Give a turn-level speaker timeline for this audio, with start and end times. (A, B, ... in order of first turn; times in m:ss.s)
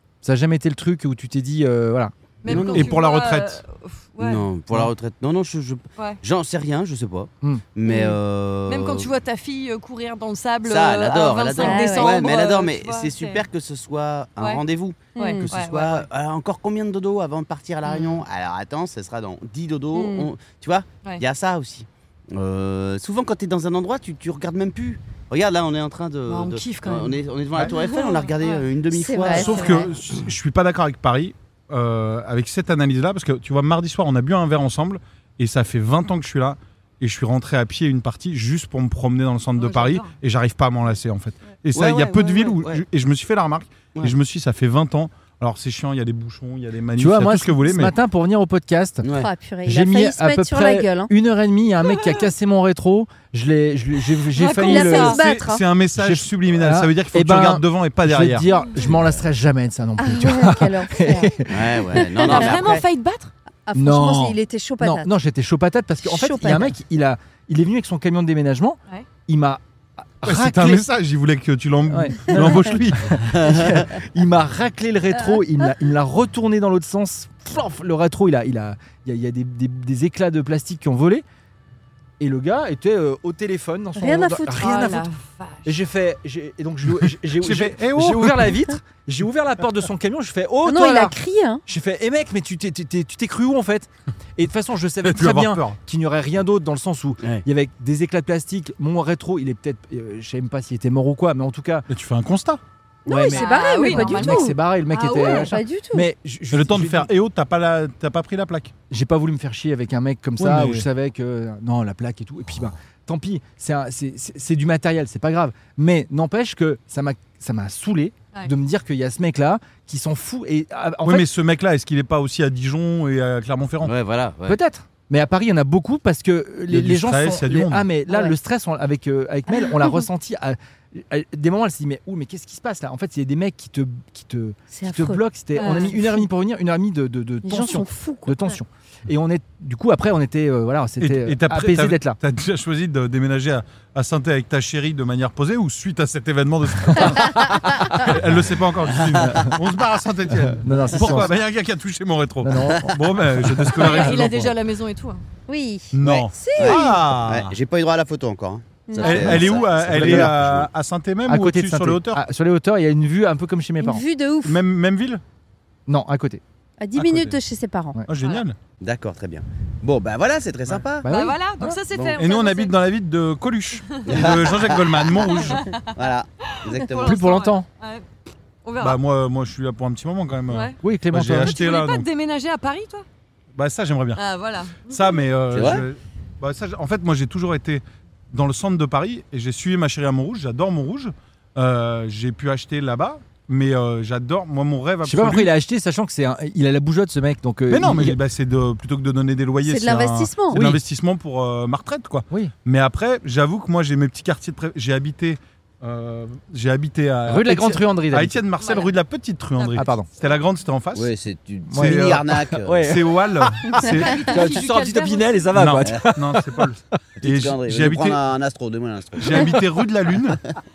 0:00.2-0:02.1 A
0:02.4-0:04.4 B
0:02.4-0:03.0 C
0:02.5-0:03.6 D
0:04.2-0:09.1 C
0:07.8-0:08.2 B
0:08.7-0:13.4 B
0:10.6-0:29.9 C
0:11.6-0:12.2 E
0:15.1-0:15.5 E
0:15.2-0:16.1 B
0:17.8-0:18.2 B
0:19.9-0:20.3 E
0:26.3-0:28.6 B
0:28.9-0:29.9 E
0:29.3-0:48.0 D
0:39.6-0:40.1 B
0:41.7-0:42.8 C
0:47.0-0:49.0 A
0:49.0-0:49.3 C
0:49.1-0:51.1 E
0:49.6-0:55.2 A
0:54.3-0:55.2 B
0:54.6-0:55.6 E
0:55.1-0:58.5 D
0:56.0-1:02.0 A
0:58.8-0:59.2 C
1:00.0-1:01.4 E
1:01.5-1:02.8 C
1:02.2-1:02.8 E
1:02.2-1:03.3 B
1:03.7-1:05.1 E
1:03.7-1:10.8 A
1:06.0-1:06.7 E
1:10.2-1:13.4 D
1:11.9-1:21.2 A
1:13.3-1:13.9 C
1:22.2-1:25.1 A
1:24.0-1:24.7 E
1:24.6-1:25.7 B
1:25.6-1:41.9 A
1:27.0-1:28.6 D
1:30.6-1:31.6 E
1:35.0-1:35.8 D
1:41.9-1:42.6 D
1:43.0-1:44.6 E
1:43.1-1:47.1 A
1:43.3-1:45.5 B
1:45.2-1:46.1 E
1:46.5-1:48.7 D
1:48.9-2:01.3 A
1:50.4-1:50.9 D
2:01.0-2:03.9 D
2:03.8-2:04.6 C
2:04.5-2:22.2 A
2:06.7-2:07.9 D
2:08.1-2:08.3 E
2:09.5-2:10.0 E
2:14.7-2:16.2 E
2:15.6-2:15.9 B
2:17.4-2:18.4 E
2:21.0-2:34.6 D
2:29.0-2:29.4 C
2:29.2-2:29.5 A
2:30.5-2:31.3 A
2:32.4-2:33.0 A
2:33.7-2:35.2 B
2:35.5-2:36.9 E
2:35.9-2:37.5 D
2:36.0-2:40.7 C
2:38.9-2:39.4 E
2:39.0-2:42.2 D
2:39.9-2:40.3 A
2:41.3-2:44.0 A
2:43.8-2:44.6 E
2:44.4-2:45.2 D
2:45.9-2:46.4 A
2:46.8-2:48.0 E
2:46.9-2:47.4 D
2:48.1-2:48.6 D
2:48.8-2:51.1 C
2:51.0-2:51.8 A
2:51.0-2:52.7 B
2:51.9-2:52.2 C
2:52.2-2:55.6 D
2:53.9-2:54.3 B
2:54.0-2:57.2 C
2:55.4-2:58.0 B
2:57.0-2:57.6 A
2:58.6-2:59.0 B
2:58.8-3:02.1 D
3:00.5-3:00.8 B
3:00.8-3:01.5 A
3:01.4-3:03.0 B
3:03.5-3:04.2 D
3:04.2-3:05.2 B
3:04.9-3:15.5 D
3:05.5-3:05.8 C
3:15.0-3:18.2 A
3:17.7-3:31.1 D
3:19.6-3:20.6 E
3:20.5-3:20.8 A
3:27.3-3:28.4 A
3:28.6-3:28.9 B
3:29.6-3:29.8 B
3:29.8-3:30.1 A
3:30.9-3:33.0 C
3:31.7-3:33.4 A
3:31.7-3:32.2 D
3:32.8-3:34.2 D
3:33.8-3:35.4 B
3:34.2-3:36.7 A
3:35.5-3:38.2 D
3:37.2-3:39.8 C
3:39.2-3:40.4 D